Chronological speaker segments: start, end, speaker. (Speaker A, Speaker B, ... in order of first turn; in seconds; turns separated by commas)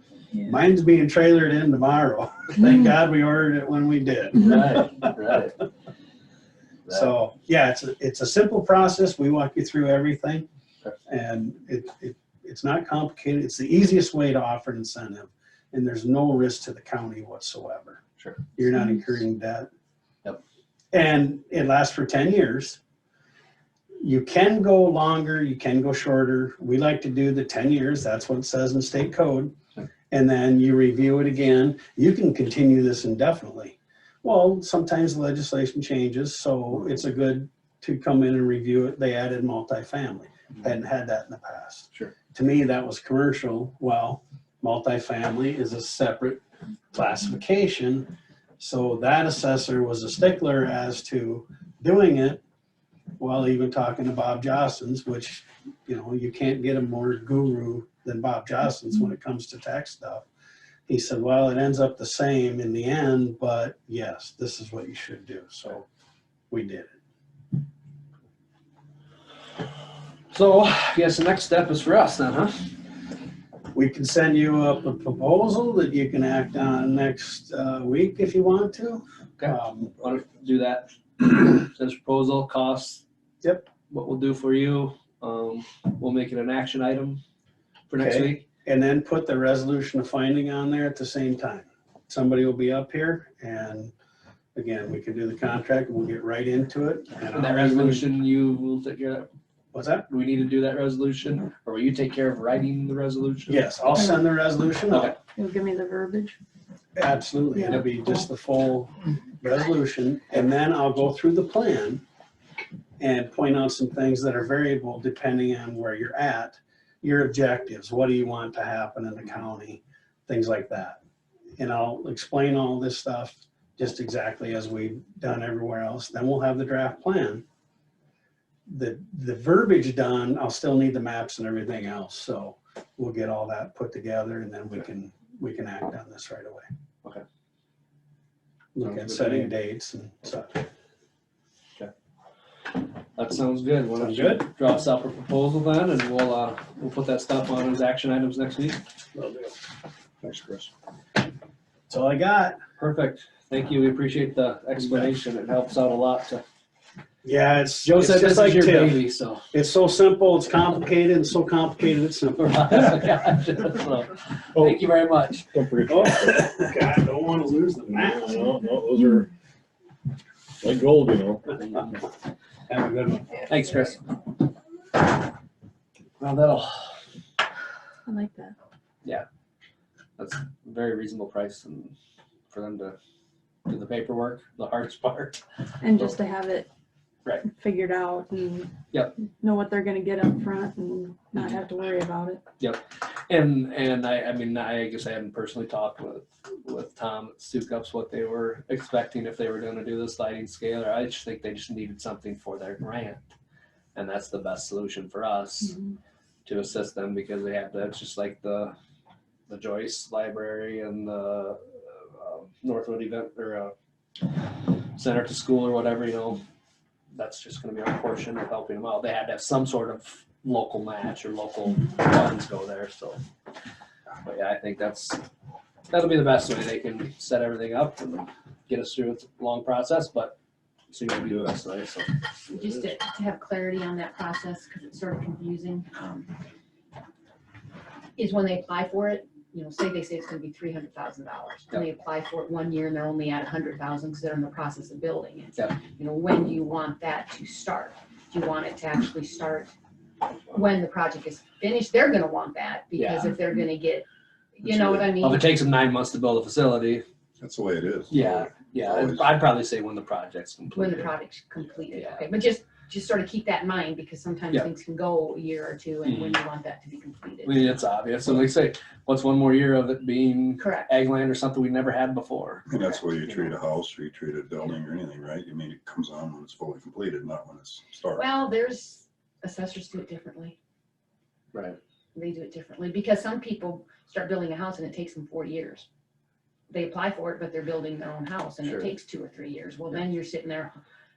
Speaker A: 0.3-0.6, Speaker B: 0.4-5.1, Speaker C: 4.4-5.6, Speaker B: 6.9-10.4, Speaker B: 11.1-18.0, Speaker B: 18.6-19.7, Speaker B: 20.9-22.8, Speaker B: 24.0-29.5, Speaker B: 30.1-46.4, Speaker B: 46.9-52.4, Speaker B: 53.2-60.2, Speaker B: 60.9-65.8, Speaker B: 66.5-66.9, Speaker C: 70.3-72.7, Speaker B: 73.7-80.0, Speaker C: 79.4-83.0, Speaker B: 83.4-83.7, Speaker C: 83.9-87.2, Speaker C: 87.9-88.4, Speaker B: 88.0-93.9, Speaker B: 94.5-98.0, Speaker C: 97.3-99.3, Speaker B: 99.7-100.0, Speaker C: 100.1-103.7, Speaker B: 103.5-105.1, Speaker A: 103.9-104.2, Speaker C: 104.9-105.2, Speaker A: 105.3-106.4, Speaker B: 107.0-112.0, Speaker B: 113.0-121.0, Speaker B: 121.6-127.4, Speaker B: 128.7-136.7, Speaker B: 138.7-140.6, Speaker C: 138.8-139.5, Speaker C: 143.2-148.8, Speaker B: 144.0-144.4, Speaker B: 149.1-149.5, Speaker B: 151.9-152.6, Speaker C: 152.8-156.4, Speaker B: 157.2-159.0, Speaker C: 157.8-159.5, Speaker B: 159.5-163.0, Speaker C: 162.4-165.5, Speaker D: 164.5-164.8, Speaker D: 165.5-166.5, Speaker B: 165.9-168.6, Speaker D: 168.0-169.3, Speaker D: 170.6-171.4, Speaker C: 171.6-171.9, Speaker B: 172.7-173.5, Speaker C: 173.5-174.0, Speaker C: 176.2-177.0, Speaker A: 178.1-178.5, Speaker C: 180.2-181.9, Speaker C: 182.5-182.9, Speaker C: 183.7-185.4, Speaker A: 185.8-186.7, Speaker A: 187.4-188.8, Speaker A: 189.4-192.4, Speaker C: 192.6-203.2, Speaker C: 203.9-205.8, Speaker C: 206.4-208.7, Speaker C: 209.5-213.7, Speaker C: 214.9-216.4, Speaker C: 217.1-223.2, Speaker C: 224.2-225.2, Speaker C: 225.9-230.4, Speaker C: 230.9-232.8, Speaker E: 232.5-236.3, Speaker E: 238.2-249.7, Speaker E: 250.5-255.4, Speaker C: 252.9-253.4, Speaker F: 254.7-255.1, Speaker C: 255.2-257.0, Speaker F: 257.4-259.4, Speaker C: 258.1-261.1, Speaker E: 260.7-267.8, Speaker C: 261.9-262.3, Speaker C: 266.0-266.4, Speaker C: 267.4-273.5, Speaker E: 270.6-270.9, Speaker F: 272.7-278.2, Speaker E: 278.1-280.6, Speaker C: 281.5-281.8, Speaker E: 282.1-285.9, Speaker E: 286.7-290.8, Speaker C: 288.6-288.9